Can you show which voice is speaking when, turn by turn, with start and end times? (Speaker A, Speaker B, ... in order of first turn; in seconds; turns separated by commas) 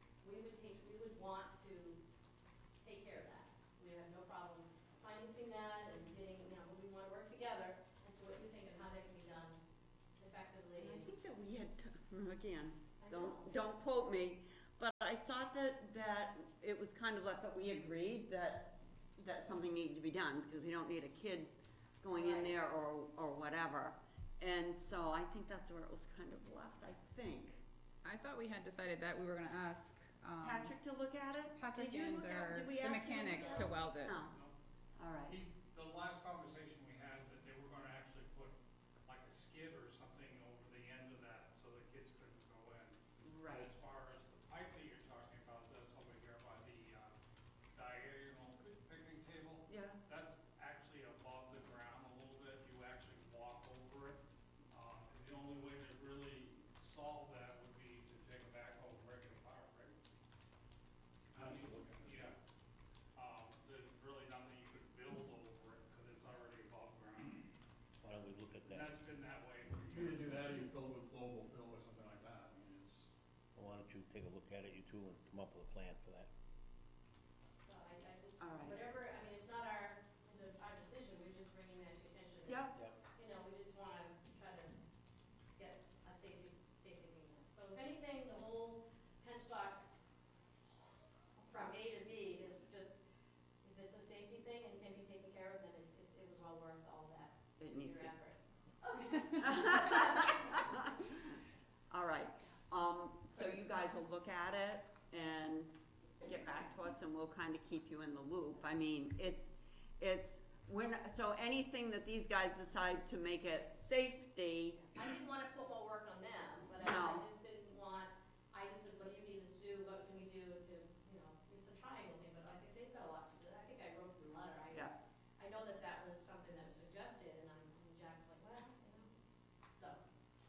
Speaker A: 0.2-2.0, Speaker A: 2.8-9.6, Speaker A: 10.2-11.1, Speaker B: 10.8-27.6, Speaker A: 13.0-13.6, Speaker A: 22.1-22.5, Speaker C: 28.0-30.8, Speaker B: 30.4-34.3, Speaker C: 31.5-34.1, Speaker D: 33.3-33.6, Speaker D: 34.2-34.5, Speaker B: 35.0-35.4, Speaker D: 35.3-47.1, Speaker B: 43.2-43.7, Speaker D: 47.7-59.9, Speaker B: 49.7-50.0, Speaker E: 61.3-62.3, Speaker D: 61.4-62.3, Speaker D: 63.1-67.5, Speaker F: 68.0-68.8, Speaker D: 68.7-70.4, Speaker E: 69.9-73.1, Speaker F: 73.5-76.3, Speaker A: 77.6-84.7, Speaker B: 78.4-78.8, Speaker B: 82.5-82.8, Speaker A: 85.5-89.8, Speaker A: 91.4-93.0, Speaker A: 93.6-100.8, Speaker B: 97.6-98.1, Speaker B: 99.4-101.4, Speaker B: 101.9-114.9, Speaker A: 114.9-129.2, Speaker B: 116.8-117.2, Speaker A: 129.7-130.0